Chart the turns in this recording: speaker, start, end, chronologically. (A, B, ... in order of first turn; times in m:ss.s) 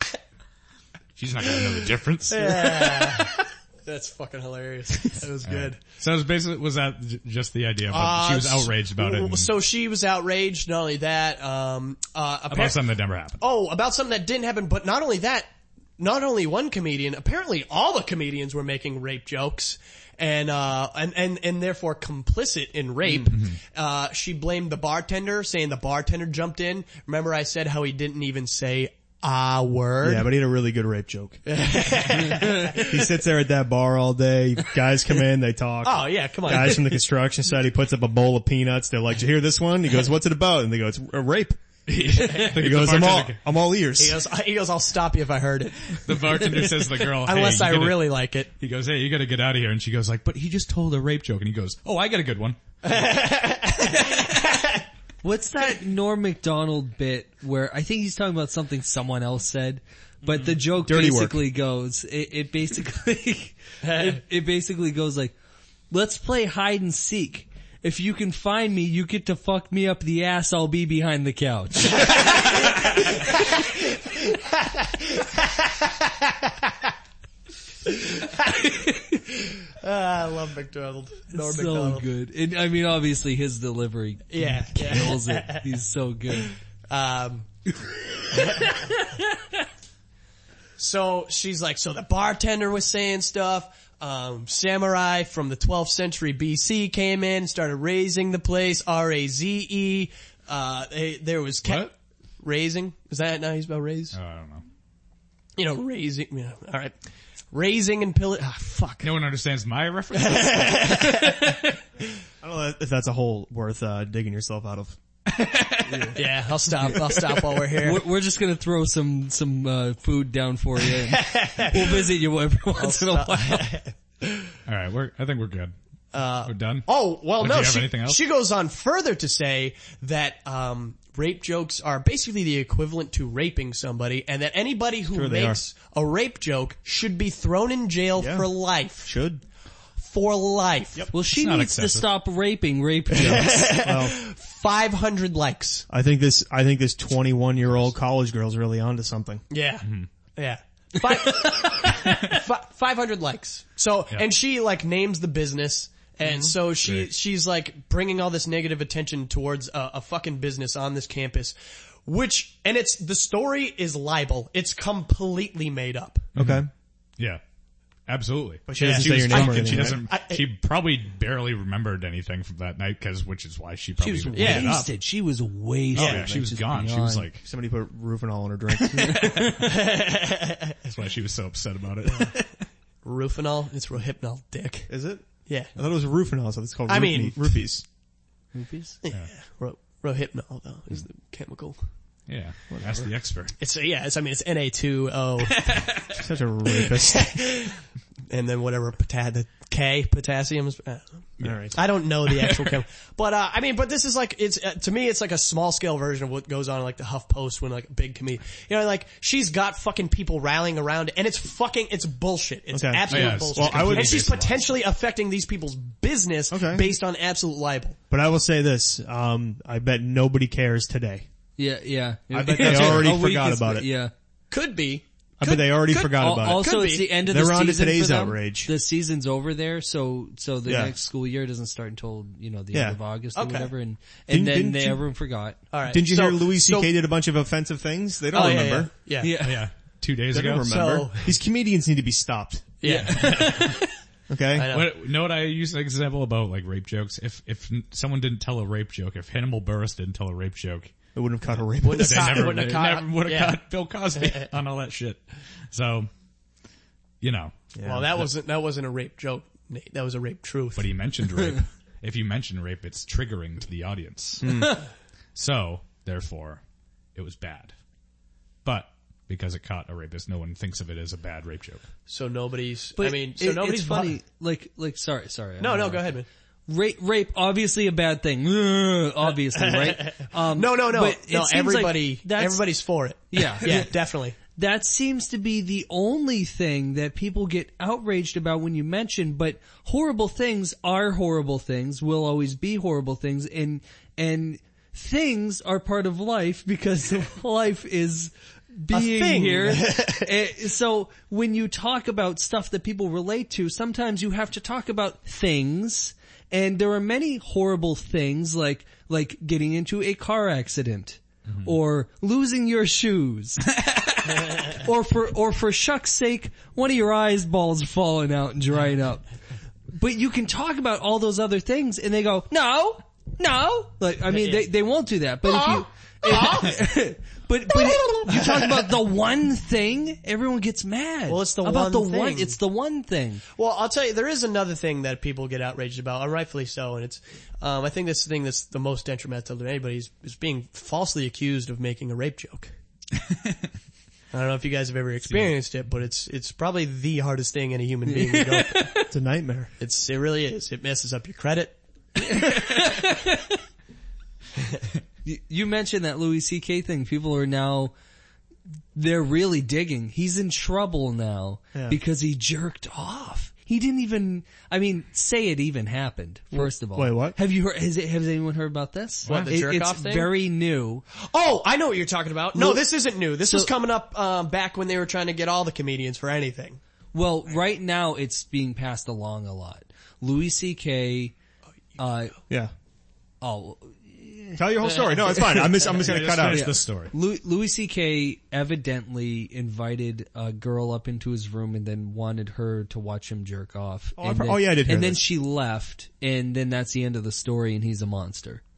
0:01.2-0:03.3 A
0:02.3-0:05.8 B
0:05.1-0:09.5 A
0:07.9-0:12.9 B
0:12.5-0:13.4 A
0:13.4-0:30.3 B
0:23.3-0:23.6 A
0:30.0-0:31.4 C
0:31.5-0:33.1 B
0:32.3-0:44.2 C
0:35.8-0:37.0 B
0:41.9-0:43.4 A
0:42.1-0:42.5 B
0:44.0-0:48.5 B
0:45.9-0:52.6 A
0:52.8-0:54.8 B
0:55.2-1:05.3 D
1:00.8-1:01.4 C
1:05.9-1:12.3 D
1:12.1-1:13.4 B
1:14.1-1:16.9 B
1:17.8-1:22.1 B
1:21.3-1:26.6 D
1:24.3-1:25.7 B
1:26.9-1:27.5 B
1:28.3-1:29.0 B
1:30.8-1:44.2 B
1:41.6-1:41.9 A
1:44.1-1:44.6 A
1:45.6-1:46.9 B
1:47.5-1:49.1 B
1:49.0-1:51.1 A
1:50.2-1:51.7 B
1:52.4-1:55.0 C
1:55.3-1:56.2 A
1:55.9-1:56.2 D
1:56.2-1:58.1 B
1:57.8-2:03.7 D
2:00.9-2:02.1 B
2:02.8-2:04.5 B
2:04.7-2:05.7 A
2:06.1-2:19.1 B
2:06.5-2:08.2 A
2:15.1-2:15.6 C
2:18.2-2:18.5 C
2:19.0-2:19.4 C
2:20.0-2:21.1 B
2:21.1-2:23.7 D
2:21.2-2:22.1 A
2:23.1-2:25.9 B
2:23.7-2:24.2 C
2:25.9-2:29.4 C
2:29.5-2:46.3 B
2:29.8-2:30.1 A
2:36.2-2:36.5 C
2:36.8-2:37.1 A
2:46.4-2:46.7 A
2:46.4-2:46.7 C
2:48.1-2:54.9 A
2:48.7-2:50.0 C
2:48.8-2:50.4 B
2:54.0-2:57.3 D
2:54.4-2:54.8 B
2:56.0-2:57.4 A
2:56.0-2:56.3 B
2:57.4-2:59.5 C
2:59.0-2:59.5 A
2:59.2-2:59.5 D
2:59.6-3:00.8 B
3:00.9-3:02.6 A
3:03.0-3:04.9 B
3:04.9-3:07.8 C
3:05.5-3:05.7 B
3:06.9-3:07.6 B
3:08.5-3:09.0 D
3:09.0-3:11.8 B
3:12.3-3:13.6 A
3:12.7-3:13.1 C
3:13.6-3:16.2 B
3:16.1-3:17.4 C
3:16.8-3:17.8 B
3:18.3-3:38.0 B
3:21.4-3:21.9 C
3:32.7-3:34.4 C
3:33.1-3:34.7 A
3:36.5-3:36.9 C
3:38.1-3:41.3 C
3:41.6-3:44.1 D
3:42.3-3:43.9 C
3:42.5-3:43.1 B
3:44.5-3:47.1 B
3:45.4-3:48.7 C
3:46.1-3:55.6 D
3:50.6-3:50.9 C
3:52.7-3:53.0 C
3:53.4-3:53.7 B
3:54.3-3:55.0 C
3:55.7-3:56.9 B
3:55.9-3:58.9 C
3:58.3-3:59.4 B
3:59.2-3:59.6 D
3:59.2-4:00.7 A
4:00.3-4:03.3 C
4:00.7-4:01.3 B
4:02.8-4:03.7 B
4:02.9-4:03.9 D
4:02.9-4:03.6 A
4:04.3-4:04.7 C
4:04.5-4:04.9 B
4:04.7-4:10.9 A
4:11.2-4:12.6 C
4:11.8-4:13.6 B
4:11.9-4:16.1 A
4:14.2-4:14.5 B
4:17.2-4:17.6 A
4:17.8-4:18.3 C
4:17.8-4:20.9 B
4:20.8-4:24.8 A
4:24.4-4:24.8 C
4:25.4-4:26.6 A
4:27.2-4:27.7 A
4:28.6-4:31.8 A
4:32.1-4:34.2 B
4:33.0-4:36.2 D
4:35.6-4:36.3 B
4:36.7-4:42.7 D
4:39.6-4:44.4 B
4:43.3-4:43.9 D
4:44.4-5:13.7 D
4:58.9-5:00.3 B
5:11.5-5:11.7 A
5:14.3-5:19.2 D
5:19.9-5:33.4 D
5:24.3-5:24.7 B
5:25.4-5:26.9 B
5:27.7-5:28.9 B
5:31.3-5:32.6 B
5:33.6-5:42.7 B
5:43.3-5:43.6 A
5:44.3-5:49.0 B
5:45.2-5:45.5 A
5:48.1-5:49.1 D
5:49.1-5:49.7 C
5:49.8-5:52.6 B
5:52.2-5:53.6 D
5:55.2-5:58.0 D
5:59.0-6:11.0 D
6:06.5-6:07.4 C
6:09.3-6:09.6 A
6:09.3-6:10.3 B
6:11.3-6:16.8 B
6:13.4-6:13.7 D
6:17.1-6:21.3 D
6:22.0-6:22.4 D
6:23.4-6:25.1 D
6:24.6-6:26.8 C
6:25.9-6:27.1 A
6:26.4-6:38.6 D
6:34.2-6:35.2 C